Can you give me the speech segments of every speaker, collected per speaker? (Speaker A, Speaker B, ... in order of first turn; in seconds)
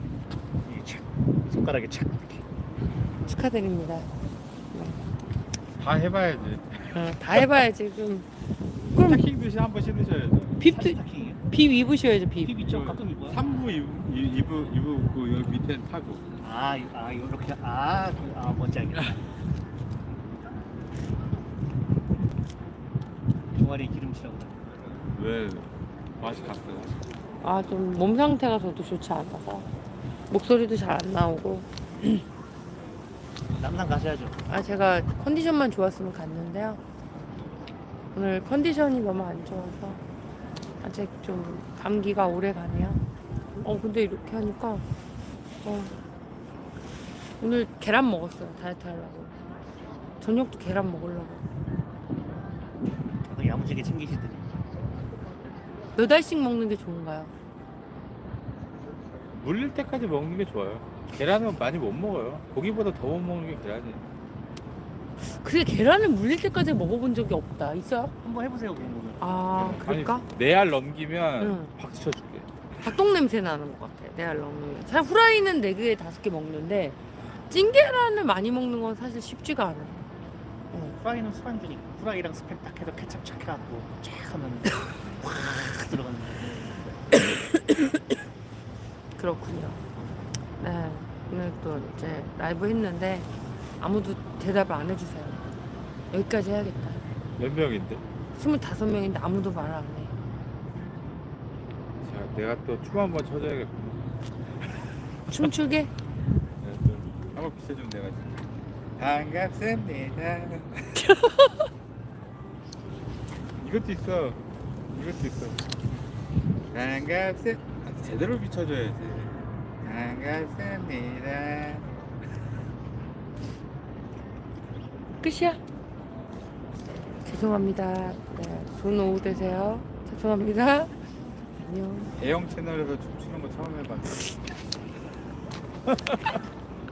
Speaker A: 0.7-2.4, 10.6-11.4, 12.4-13.4, 16.4-19.2, 23.6-24.7, 33.6-34.4, 53.2-54.6, 68.2-69.4, 81.0-86.7
Speaker B: 3.2-4.1, 4.7-5.0, 6.9-8.3, 8.9-9.3, 10.6-12.5, 27.4-29.7, 30.3-32.2, 34.5-36.8, 38.1-40.0, 40.8-43.0, 43.6-44.9, 45.6-45.9, 47.4-49.5, 50.2-51.4, 55.9-57.3, 65.3-68.1, 69.2-70.3, 71.4-71.7, 72.8-80.0, 87.2-88.0, 89.2-89.8, 90.6-93.3, 93.8-95.4, 96.1-97.0, 98.3-100.1, 105.3-105.9, 111.0-111.6, 125.2-125.6, 127.2-130.9, 131.6-132.1
Speaker C: 5.8-7.6, 8.9-10.6, 12.7-16.2, 25.1-27.0, 59.3-64.0, 69.5-72.5, 97.4-98.0, 102.0-104.1, 106.6-108.4, 109.0-111.1, 113.6-114.4, 114.9-115.7, 116.7-121.9, 132.2-134.4, 135.8-136.4